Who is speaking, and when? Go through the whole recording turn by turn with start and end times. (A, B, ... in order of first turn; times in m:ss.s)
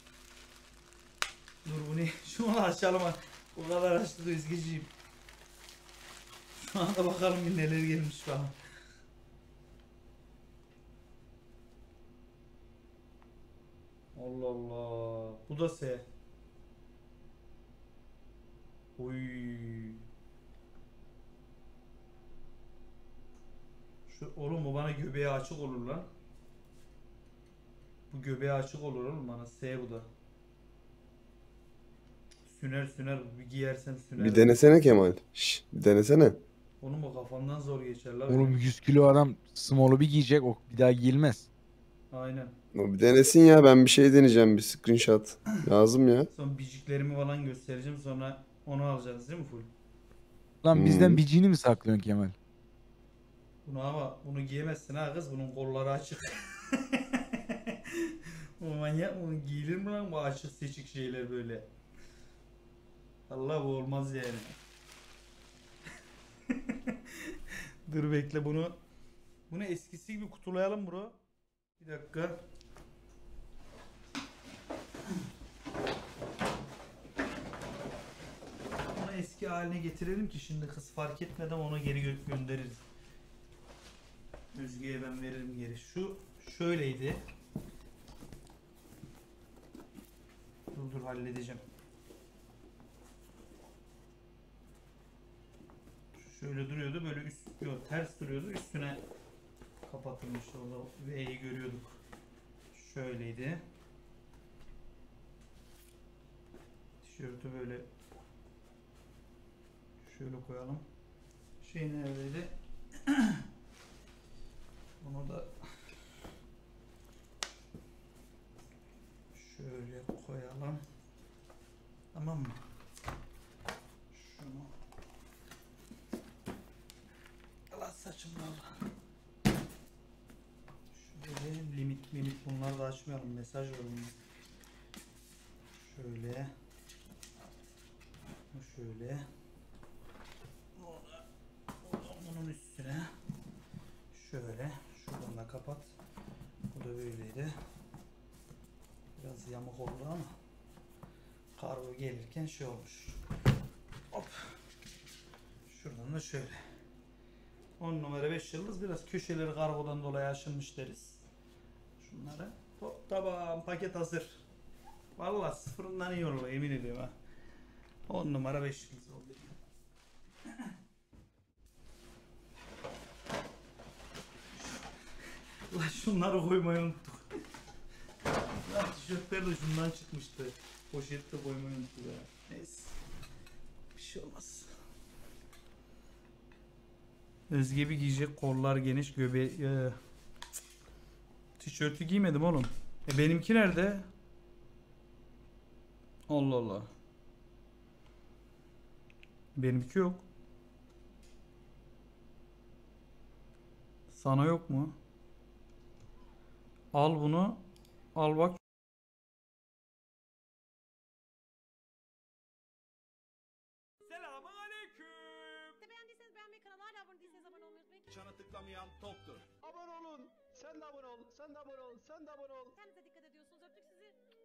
0:01.6-0:04.9 A
0:06.6-0:08.6 A
0:14.2-0:16.1 A
0:19.0-0:20.0 A
0:24.1-0:26.1 A
0:28.1-0:30.1 A
0:32.5-0:34.6 A
0:34.2-0:36.4 B
0:36.8-0:38.6 A
0:38.3-0:41.5 C
0:42.1-0:42.6 A
0:42.7-0:46.3 B
0:46.3-0:49.7 A
0:50.6-0:52.4 C
0:50.7-0:51.2 B
0:53.6-1:01.7 A
1:03.3-1:04.6 A
1:06.5-1:08.8 A
1:09.5-1:11.2 A
1:11.8-1:12.4 A
1:18.9-1:22.8 A
1:24.5-1:27.2 A
1:30.7-1:31.6 A
1:36.2-1:39.0 A
1:39.8-1:42.0 A
1:42.7-1:43.6 A
1:47.0-1:47.9 A
1:50.0-1:50.8 A
1:51.6-1:53.4 A
1:55.0-1:55.5 A
1:59.3-2:00.8 A
2:02.1-2:02.6 A
2:04.1-2:04.7 A
2:07.7-2:08.8 A
2:10.9-2:14.2 A
2:15.7-2:16.5 A
2:18.5-2:19.2 A
2:20.8-2:21.2 A
2:21.8-2:23.1 A
2:24.1-2:25.9 A
2:26.7-2:27.5 A
2:29.2-2:30.3 A
2:31.6-2:33.2 A
2:34.1-2:34.6 A
2:35.7-2:36.6 A
2:37.8-2:41.3 A
2:42.0-2:44.4 A
2:45.2-2:47.1 A
2:48.1-2:49.6 A
2:54.6-2:54.9 A
2:55.7-2:57.2 A
2:58.3-3:03.0 A
3:04.0-3:04.7 A
3:07.5-3:10.0 A
3:11.6-3:14.1 A
3:16.3-3:16.9 A
3:19.6-3:20.2 A
3:24.1-3:25.0 A
3:26.9-3:28.6 A
3:34.1-3:38.2 D
3:39.7-3:42.7 E
3:42.8-3:44.2 D